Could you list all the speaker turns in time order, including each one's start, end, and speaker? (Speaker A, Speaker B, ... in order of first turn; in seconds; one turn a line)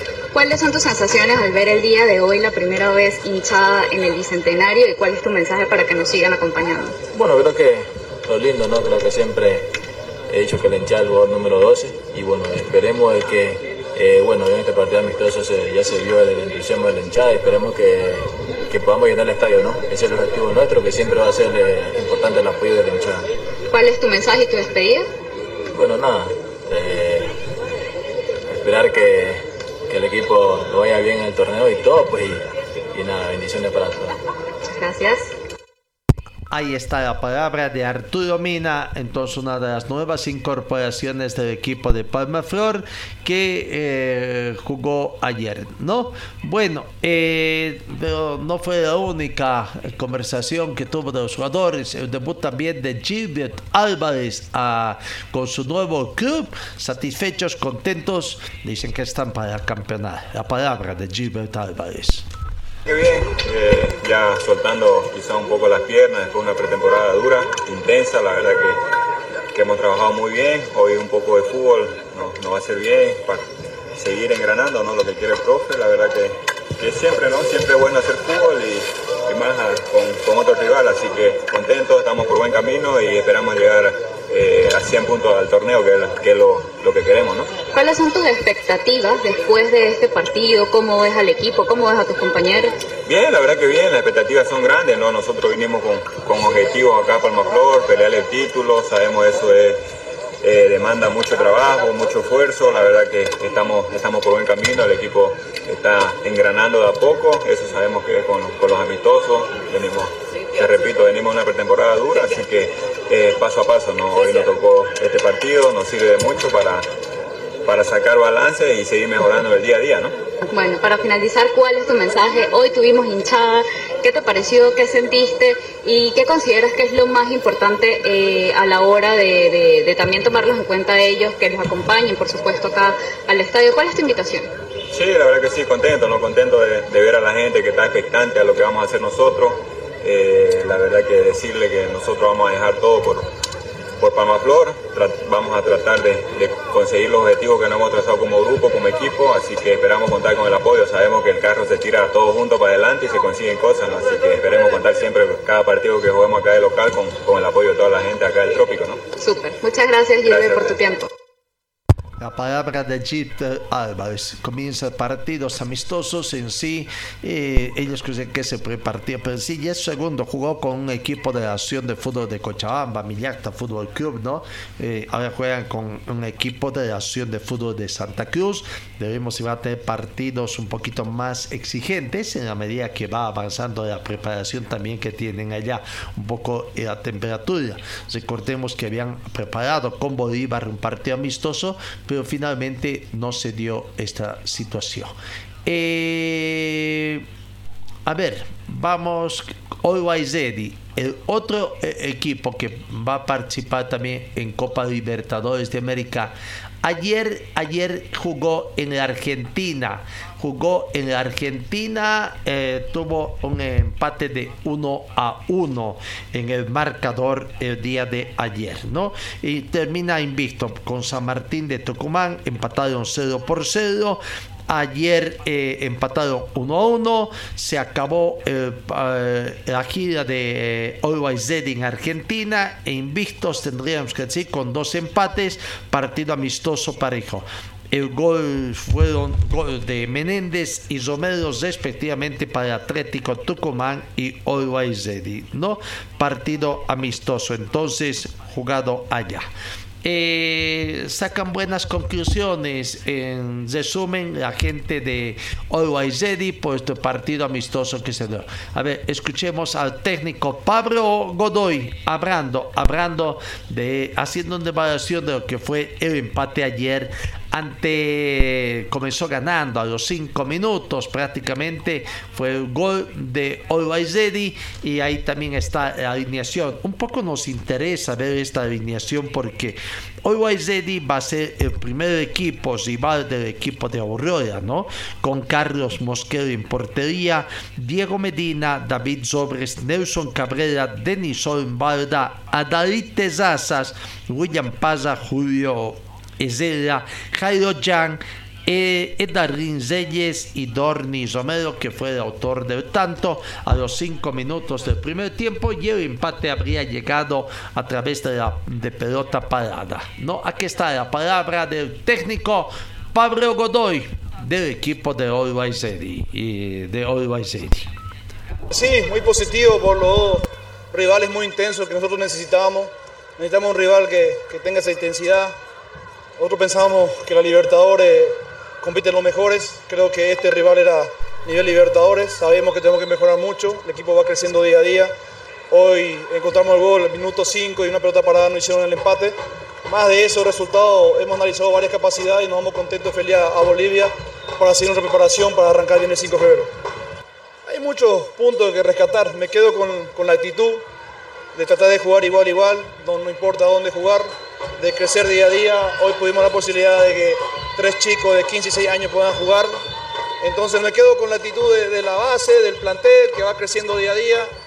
Speaker A: 0.3-7.0
Speaker B: 7.1-9.7
Speaker B: 10.3-23.3
Speaker A: 23.7-25.1
Speaker B: 25.7-27.4
Speaker B: 28.5-34.2
Speaker A: 34.7-35.3
Speaker C: 36.5-62.2
Speaker D: 62.9-68.8
Speaker D: 69.5-87.5
Speaker A: 87.7-92.8
Speaker D: 93.1-99.8
Speaker D: 100.4-116.9
Speaker D: 117.7-120.1
Speaker A: 120.5-134.5
Speaker D: 134.9-143.3
Speaker D: 144.0-159.0
Speaker A: 159.2-161.1
Speaker D: 160.2-160.8
Speaker C: 162.2-195.1
Speaker C: 195.7-197.3
Speaker C: 198.1-249.5
Speaker C: 250.0-317.9
Speaker E: 318.7-325.6
Speaker E: 326.4-335.1
Speaker E: 335.7-346.7
Speaker E: 347.6-350.8
Speaker E: 351.5-359.8
Speaker E: 360.4-364.5